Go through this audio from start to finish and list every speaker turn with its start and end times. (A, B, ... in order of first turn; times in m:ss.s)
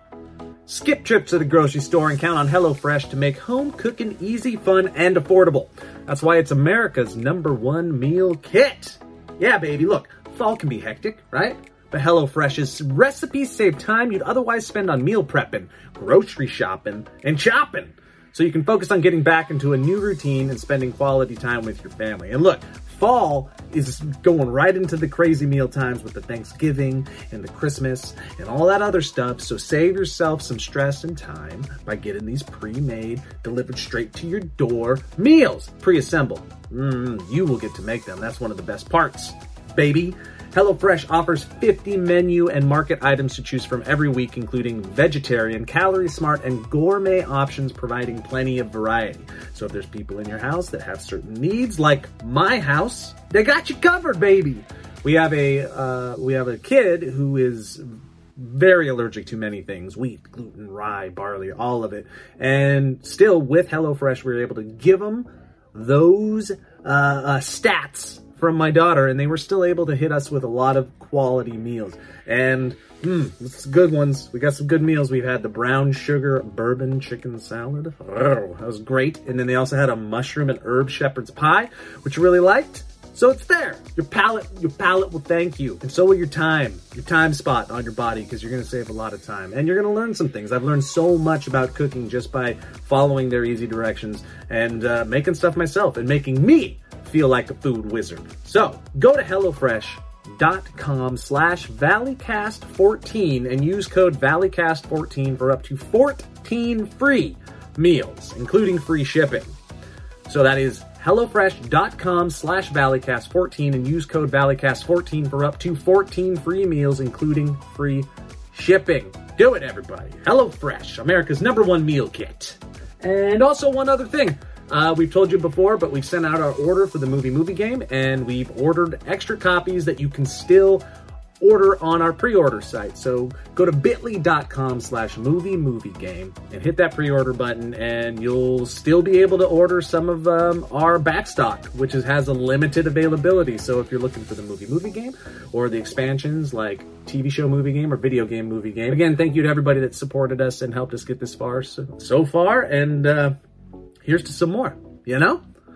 0:00.7-1:49.5 A
1:50.3-2:10.8 A
2:11.4-2:33.4 A
2:34.0-2:35.4 A